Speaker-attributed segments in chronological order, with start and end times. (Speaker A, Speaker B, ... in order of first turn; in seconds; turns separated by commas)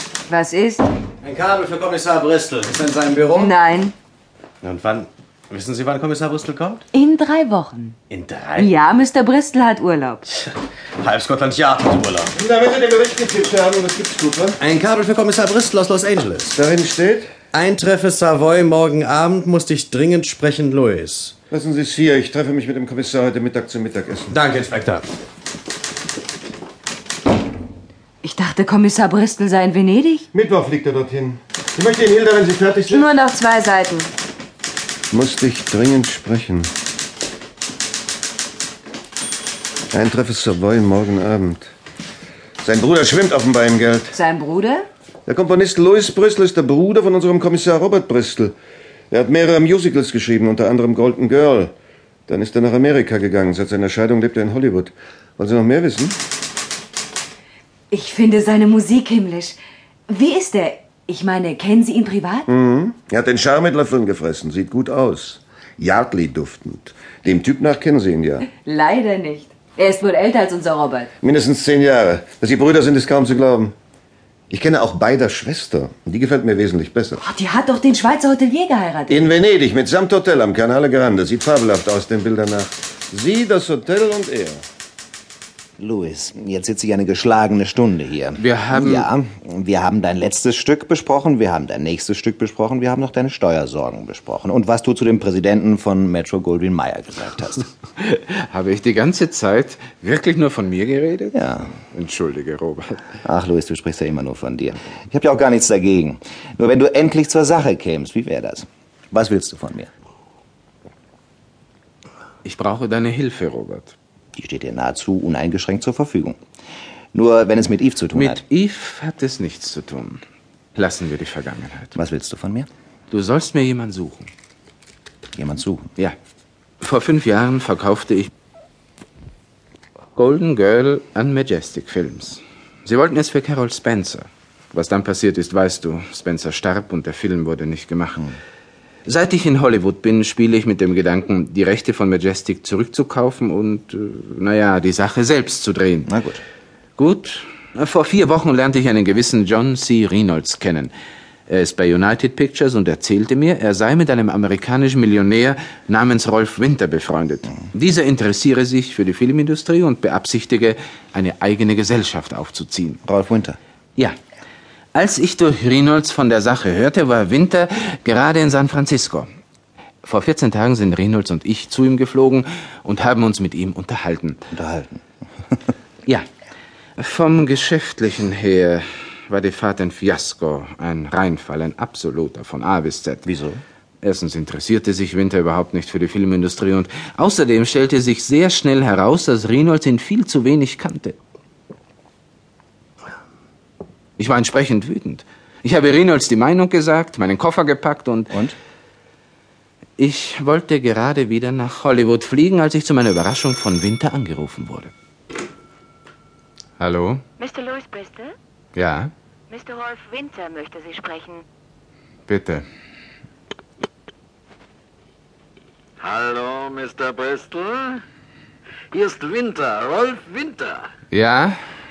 Speaker A: 0.3-0.9, Speaker B: 1.2-3.5, Speaker A: 3.4-4.0, Speaker B: 4.6-6.8, Speaker A: 6.9-8.0, Speaker B: 8.1-8.7, Speaker A: 8.5-10.2, Speaker B: 10.3-12.3, Speaker C: 12.3-14.6, Speaker B: 14.6-16.6, Speaker C: 16.5-17.3, Speaker B: 17.5-21.3, Speaker C: 21.5-24.4, Speaker B: 24.3-25.1, Speaker A: 28.2-30.3, Speaker C: 30.3-33.1, Speaker A: 32.9-34.1, Speaker C: 35.1-36.7, Speaker C: 39.9-41.7, Speaker C: 42.6-44.1, Speaker A: 44.1-44.9, Speaker C: 45.3-48.5, Speaker C: 49.1-51.7, Speaker C: 52.3-56.2, Speaker A: 57.9-62.5, Speaker C: 62.5-68.4, Speaker A: 68.5-71.1, Speaker C: 71.2-73.7, Speaker C: 74.5-77.2, Speaker A: 77.2-79.3, Speaker C: 79.1-84.6, Speaker D: 85.8-97.7, Speaker E: 88.4-89.1, Speaker E: 98.0-103.1, Speaker D: 101.3-101.7, Speaker D: 103.2-109.9, Speaker E: 112.4-114.0, Speaker D: 114.3-116.4, Speaker D: 117.1-118.4, Speaker E: 118.1-120.2, Speaker E: 120.7-121.9, Speaker D: 122.0-122.7, Speaker E: 123.1-124.3, Speaker D: 125.4-125.9, Speaker E: 126.8-128.3, Speaker E: 130.2-138.2, Speaker E: 139.1-146.1, Speaker D: 146.1-146.4, Speaker E: 147.0-150.9, Speaker E: 151.5-163.0, Speaker D: 163.1-163.6, Speaker E: 164.9-169.3, Speaker E: 170.0-174.4, Speaker D: 174.5-175.0, Speaker E: 177.0-183.2, Speaker D: 183.3-183.6, Speaker E: 184.0-191.2, Speaker E: 194.2-198.3, Speaker D: 198.3-198.6, Speaker E: 200.0-204.9, Speaker E: 206.8-207.2, Speaker F: 207.4-208.3, Speaker E: 208.8-209.1, Speaker F: 209.5-211.4, Speaker E: 212.3-212.7, Speaker G: 216.0-218.1, Speaker G: 218.9-220.9, Speaker E: 221.1-221.6